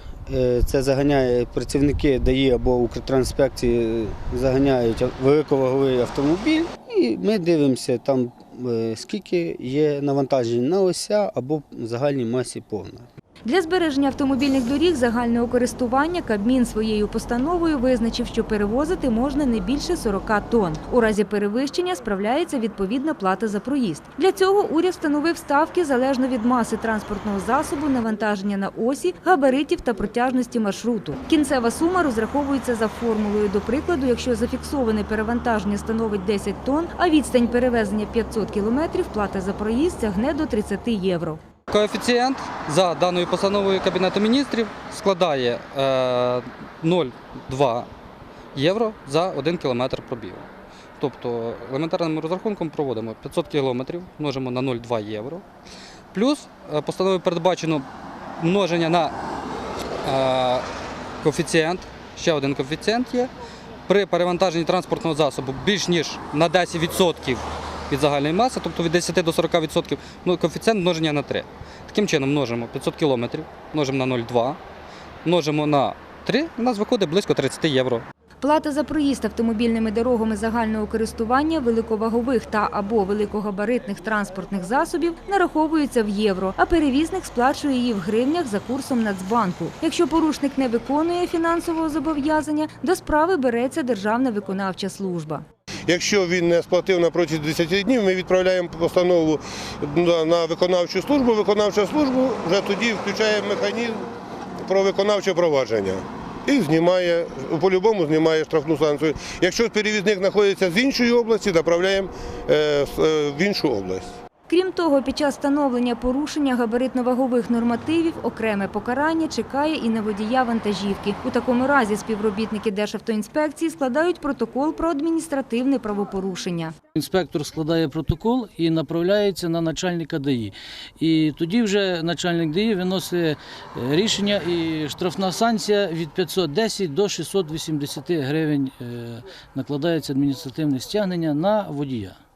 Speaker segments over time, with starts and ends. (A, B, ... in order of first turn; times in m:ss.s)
0:00.3-0:13.1 A
0:13.4-0:41.4 B
0:41.7-0:47.9 C
0:48.5-0:50.5 C
0:51.0-0:55.4 C
0:56.1-0:57.8 C
0:58.4-0:59.1 C
1:00.0-1:00.6 C
1:01.2-1:03.3 C
1:03.9-1:14.6 C
1:15.2-1:18.0 C
1:18.4-1:35.4 B
1:35.9-1:44.1 D
1:44.6-1:54.1 D
1:54.5-2:06.7 B
2:06.9-2:22.2 E